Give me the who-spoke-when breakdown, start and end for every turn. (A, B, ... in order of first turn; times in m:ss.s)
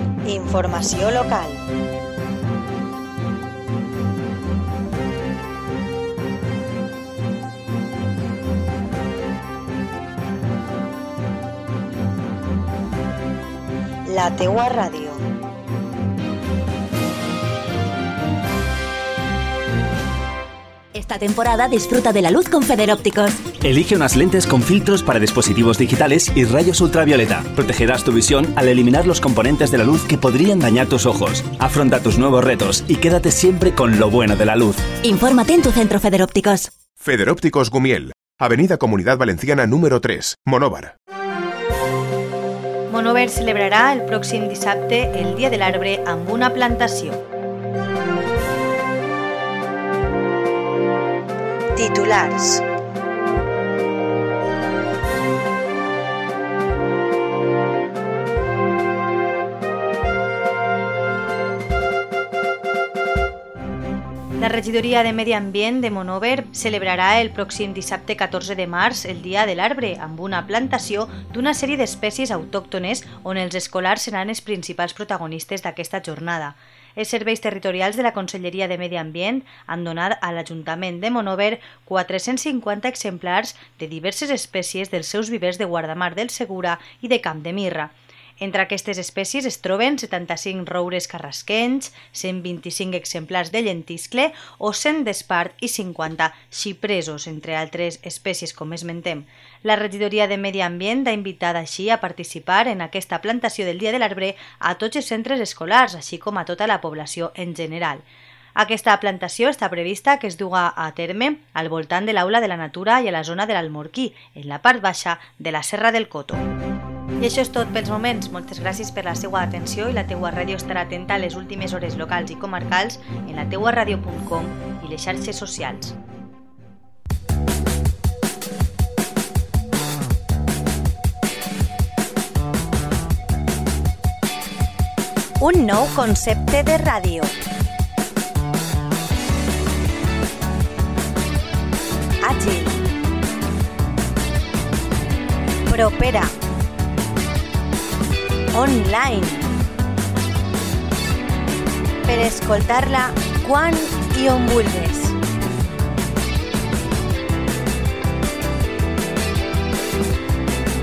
0:00.3-0:01.5 A
0:14.1-0:15.2 A
0:20.9-0:23.4 B
0:23.6-0:35.0 C
0:35.0-0:36.7 B
0:37.0-0:40.9 D
0:42.9-0:47.2 E
0:51.8-0:52.6 A
1:04.4-1:48.0 E
1:48.5-1:56.4 E
1:57.2-2:06.0 E
2:15.4-2:17.2 E
2:15.5-2:17.1 A
2:25.8-2:26.2 A
2:28.6-2:29.2 E
2:28.6-2:29.2 A
2:32.1-2:35.1 E
2:32.2-2:34.5 A